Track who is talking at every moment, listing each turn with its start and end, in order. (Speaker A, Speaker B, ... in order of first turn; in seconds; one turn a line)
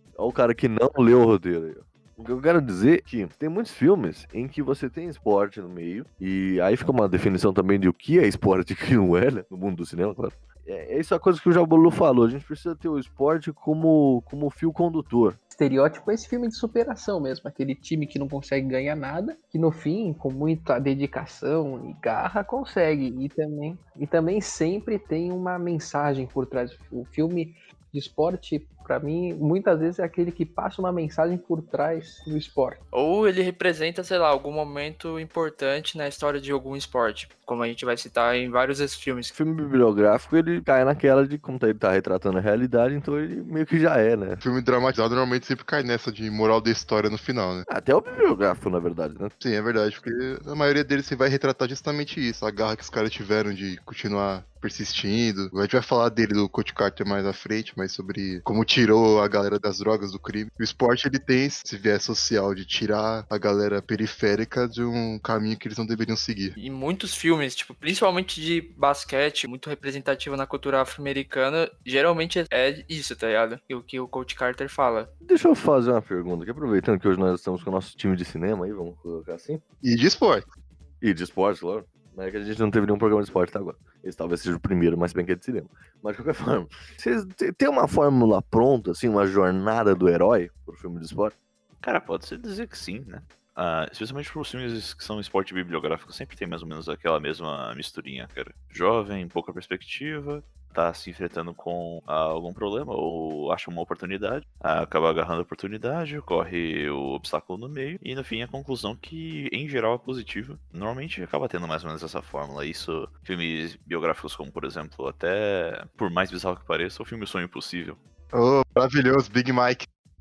Speaker A: 0.2-15.4
Speaker B: 15.5-32.8
Speaker C: 32.9-39.3
Speaker A: 39.3-44.4
Speaker D: 44.4-47.6
Speaker A: 47.7-49.3
Speaker D: 49.4-66.5
Speaker C: 66.6-75.1
Speaker A: 75.2-79.6
Speaker D: 79.8-80.5
Speaker A: 81.0-91.3
Speaker E: 91.8-118.0
Speaker D: 118.3-119.8